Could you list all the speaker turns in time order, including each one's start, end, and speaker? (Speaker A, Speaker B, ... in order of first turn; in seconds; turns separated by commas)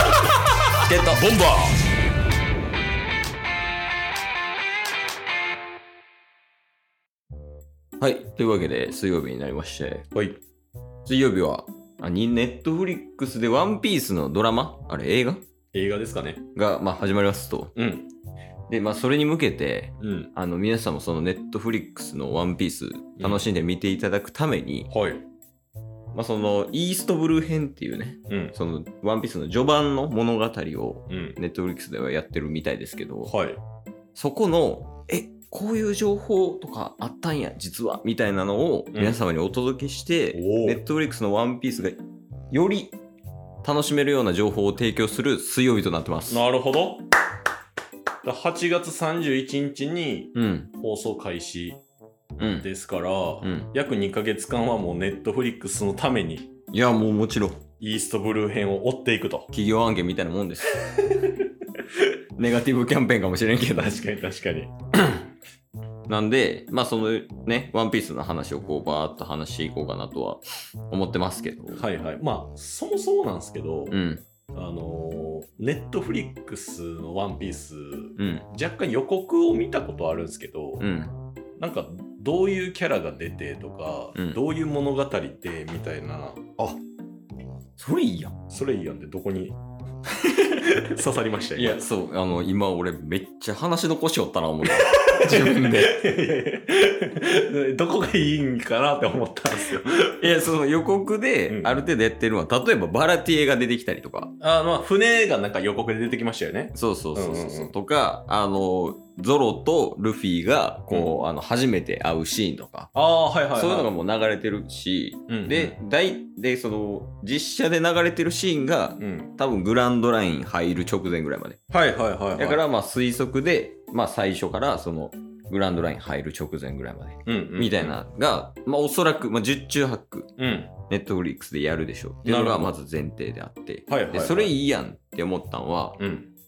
Speaker A: 0.9-1.2, Speaker B: 1.1-1.8, Speaker A: 8.0-10.1, Speaker A: 11.1-15.4, Speaker B: 15.7-16.4, Speaker A: 16.6-17.7, Speaker B: 17.7-18.1, Speaker A: 18.7-24.9, Speaker B: 20.0-20.3, Speaker B: 23.2-23.4, Speaker B: 24.9-25.2, Speaker A: 26.1-33.3, Speaker B: 28.3-28.6, Speaker B: 31.1-31.4, Speaker B: 33.3-33.6, Speaker A: 34.1-42.0, Speaker B: 38.9-39.2, Speaker B: 40.3-40.8, Speaker A: 42.5-43.0, Speaker A: 43.6-46.4, Speaker B: 46.3-47.0, Speaker B: 48.2-51.8, Speaker A: 50.3-50.7, Speaker A: 52.4-52.7, Speaker B: 52.6-56.5, Speaker A: 53.4-53.7, Speaker A: 56.7-57.6, Speaker B: 57.8-59.5, Speaker A: 59.5-60.9, Speaker B: 60.8-61.5, Speaker A: 62.4-64.0, Speaker B: 63.8-65.2, Speaker A: 66.1-71.8, Speaker B: 71.7-74.0, Speaker A: 73.9-74.2, Speaker B: 74.5-80.9, Speaker A: 78.2-78.5, Speaker A: 80.8-81.1, Speaker B: 81.6-86.4, Speaker A: 87.8-88.3, Speaker B: 88.5-89.6, Speaker B: 90.4-91.8, Speaker A: 91.5-96.0, Speaker B: 94.8-100.2, Speaker A: 100.2-104.3, Speaker B: 101.5-101.9, Speaker B: 104.4-107.7, Speaker A: 106.7-112.9, Speaker B: 110.9-111.2, Speaker B: 112.9-113.9, Speaker A: 113.5-121.6, Speaker B: 115.3-115.8, Speaker B: 119.0-119.3, Speaker B: 121.7-122.6, Speaker A: 122.3-130.3, Speaker B: 127.2-128.0, Speaker B: 130.4-130.7, Speaker A: 130.9-136.0, Speaker B: 132.2-132.8, Speaker B: 133.9-134.6, Speaker B: 136.0-136.3